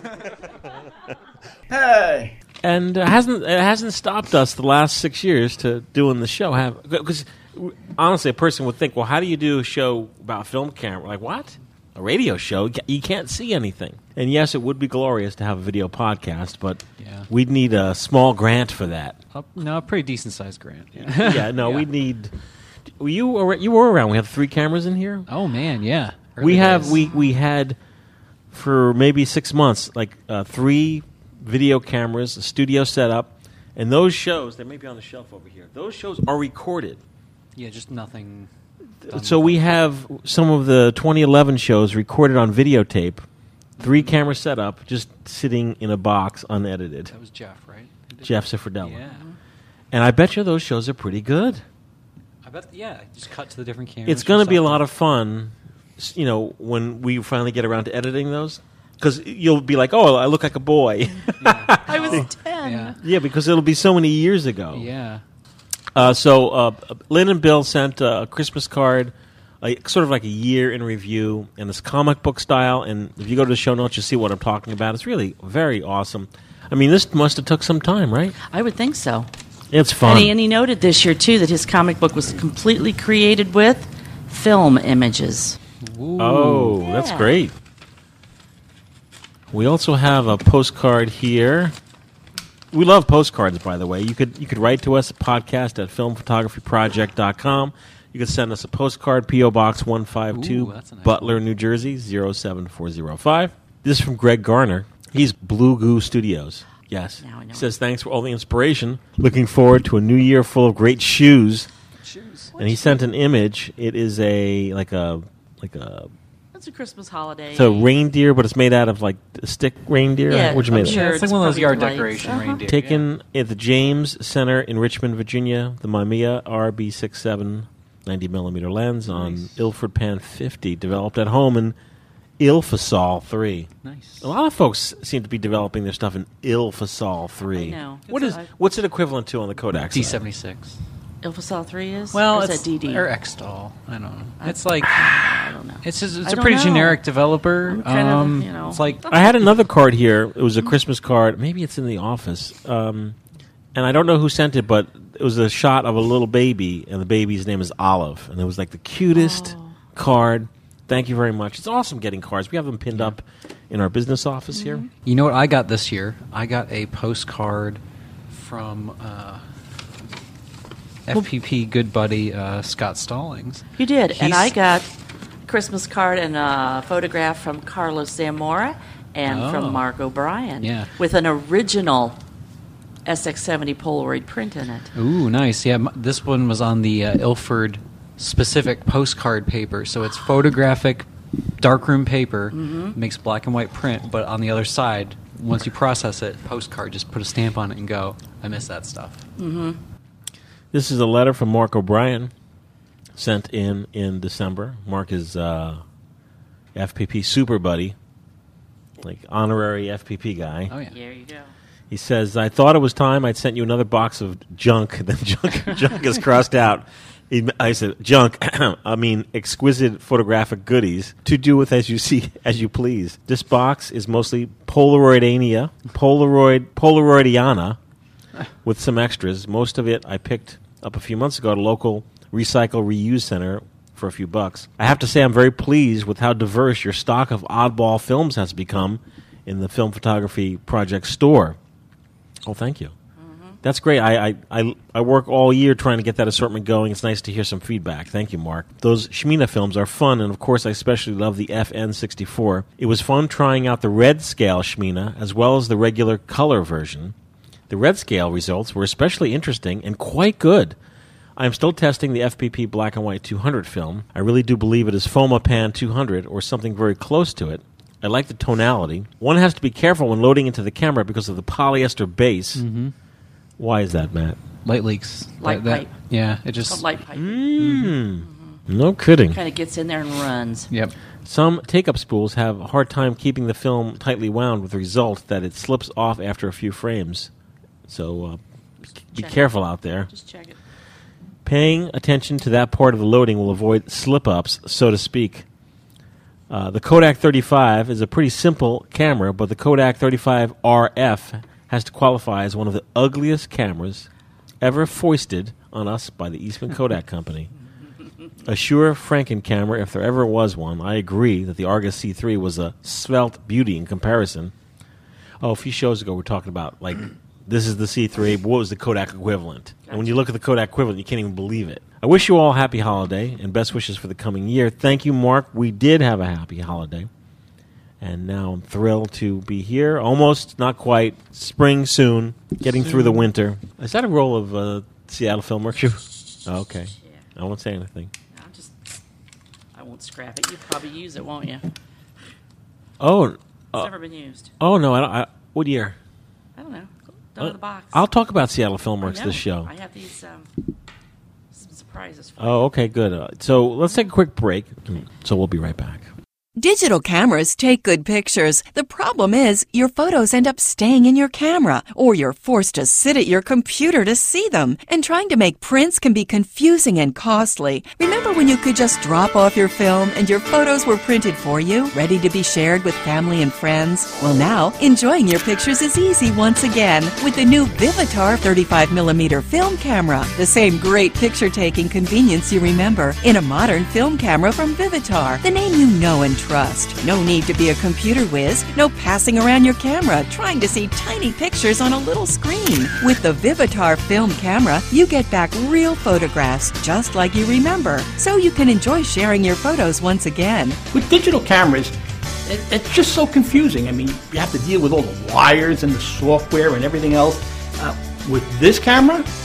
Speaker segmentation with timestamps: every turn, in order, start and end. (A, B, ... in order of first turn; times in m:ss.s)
0:01.7-0:02.3 A
0:02.6-0:19.2 B
0:17.0-0:17.3 C
0:19.3-0:21.9 C
0:21.0-0:22.3 B
0:23.0-0:25.3 B
0:25.3-0:27.1 C
0:26.4-0:27.8 B
0:28.5-0:37.0 B
0:37.6-0:38.5 C
0:39.0-0:43.3 B
0:39.1-0:39.6 C
0:43.8-0:47.1 B
0:43.8-0:44.1 C
0:47.1-0:49.2 C
0:48.2-0:49.0 B
0:49.1-0:49.4 D
0:49.9-0:51.6 B
0:52.4-0:54.8 C
0:54.1-1:02.3 B
1:01.4-1:03.0 C
1:01.9-1:03.0 D
1:03.0-1:04.9 B
1:04.7-1:05.2 C
1:06.0-1:18.4 B
1:18.5-1:19.3 D
1:19.7-1:20.3 B
1:20.0-1:25.6 D
1:25.8-1:26.8 C
1:26.2-1:27.6 B
1:26.8-1:27.3 D
1:29.5-1:31.8 B
1:32.7-1:51.7 B
1:40.3-1:41.4 C
1:47.2-1:47.7 D
1:52.0-1:52.5 C
1:52.6-1:56.1 B
1:52.6-1:53.0 D
1:56.5-1:57.9 D
1:57.5-2:01.0 B
2:00.3-2:02.6 D
2:00.7-2:03.1 C
2:02.6-2:11.8 B
2:09.1-2:09.5 C
2:12.4-2:13.7 B
2:13.8-2:14.3 C
2:14.2-2:20.2 B
2:17.5-2:18.5 D
2:19.9-2:20.8 C
2:21.2-2:23.1 D
2:22.1-2:25.0 C
2:24.4-2:27.0 D
2:25.8-2:29.0 C
2:27.7-2:29.2 D
2:29.1-2:33.2 B
2:33.8-2:44.9 B
2:39.1-2:39.7 D
2:44.5-2:44.9 D
2:45.0-2:49.4 C
2:51.1-2:54.6 C
2:53.8-2:54.9 D
2:55.5-3:02.2 D
2:59.3-2:59.8 C
3:00.6-3:00.9 C
3:03.1-3:04.9 D
3:05.0-3:11.1 C
3:11.6-3:19.2 C
3:12.5-3:13.0 D
3:19.4-3:19.8 D
3:20.7-3:22.3 B
3:23.2-3:25.8 B
3:26.8-3:28.0 B
3:29.0-3:30.7 B
3:30.7-3:31.0 C
3:30.9-3:31.5 D
3:31.9-3:47.8 B
3:48.6-4:01.6 B
4:02.4-4:02.9 B
4:03.2-4:03.6 D
4:03.6-4:17.1 B
4:17.7-4:20.8 B
4:21.4-4:32.6 B
4:32.6-4:32.9 C
4:33.6-4:34.4 B
4:34.6-4:36.9 C
4:35.4-4:36.0 D
4:36.7-4:37.5 D
4:37.2-4:39.4 B
4:37.6-4:38.0 C
4:38.2-4:38.6 D
4:39.3-4:40.7 D
4:41.2-4:47.3 B
4:47.9-4:48.4 B
4:49.1-4:50.1 B
4:49.1-4:49.6 D
4:50.1-4:50.6 D
4:51.4-4:55.5 B
4:56.5-5:04.1 B
5:04.6-5:07.5 B
5:08.4-5:14.5 B
5:15.4-5:27.1 B
5:19.9-5:20.2 D
5:28.0-5:38.1 B
5:32.8-5:33.3 C
5:38.3-5:39.0 D
5:39.7-5:41.6 D
5:43.0-5:43.9 B
5:43.8-5:44.5 D
5:44.6-5:46.0 B
5:46.6-5:48.0 D
5:47.4-5:49.7 B
5:49.0-5:50.5 D
5:51.5-5:52.6 D
5:52.4-5:56.1 B
5:56.6-6:40.8 E
6:40.9-6:49.3 A